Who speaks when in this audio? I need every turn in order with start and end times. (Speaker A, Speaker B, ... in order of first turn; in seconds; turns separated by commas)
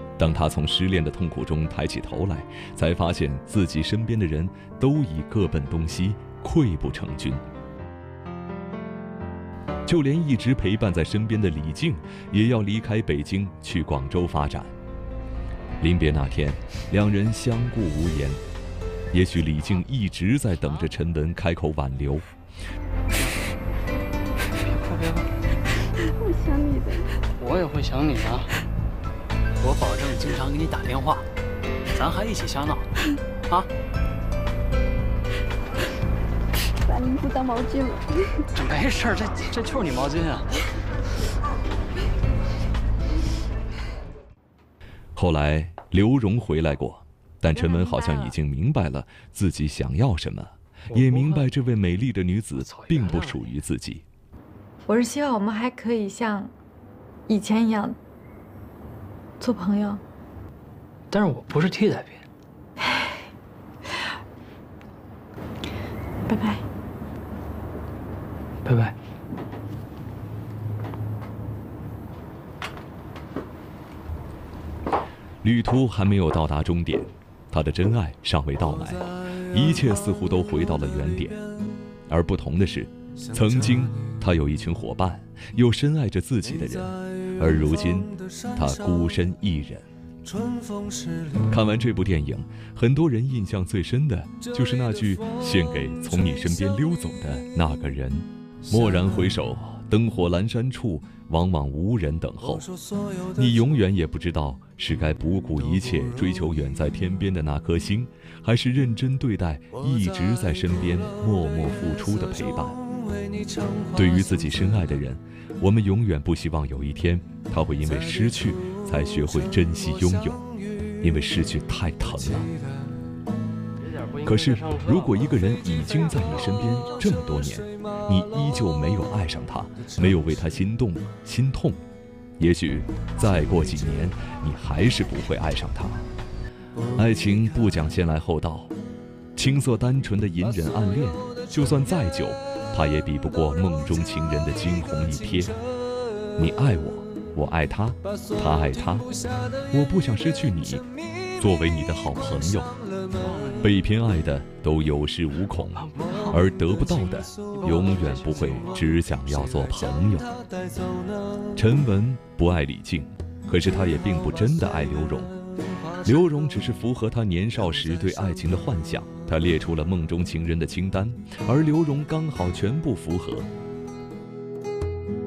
Speaker A: 0.2-7.4, Speaker A: 9.8-14.7, Speaker A: 15.8-18.4, Speaker A: 19.1-22.2, Speaker B: 24.6-25.3, Speaker C: 26.0-27.1, Speaker B: 27.4-28.5, Speaker B: 29.6-31.3, Speaker B: 31.9-32.9, Speaker C: 36.8-38.4, Speaker B: 38.5-40.5, Speaker A: 45.1-54.0, Speaker B: 50.9-51.5, Speaker B: 52.5-53.5, Speaker D: 54.9-56.5, Speaker D: 57.3-57.9, Speaker D: 59.4-60.0, Speaker B: 61.1-62.2, Speaker B: 68.6-68.9, Speaker A: 75.4-81.4, Speaker A: 82.1-89.9, Speaker A: 91.5-102.7, Speaker A: 103.3-112.8, Speaker A: 113.9-120.4, Speaker A: 121.0-122.5, Speaker A: 124.2-131.8, Speaker A: 132.4-136.1, Speaker A: 136.9-138.7, Speaker A: 139.3-145.5, Speaker A: 146.3-149.1, Speaker A: 149.7-150.8, Speaker A: 151.4-152.7, Speaker B: 153.2-153.6, Speaker A: 153.6-160.3, Speaker B: 155.9-156.2, Speaker A: 161.5-165.3, Speaker A: 166.0-173.5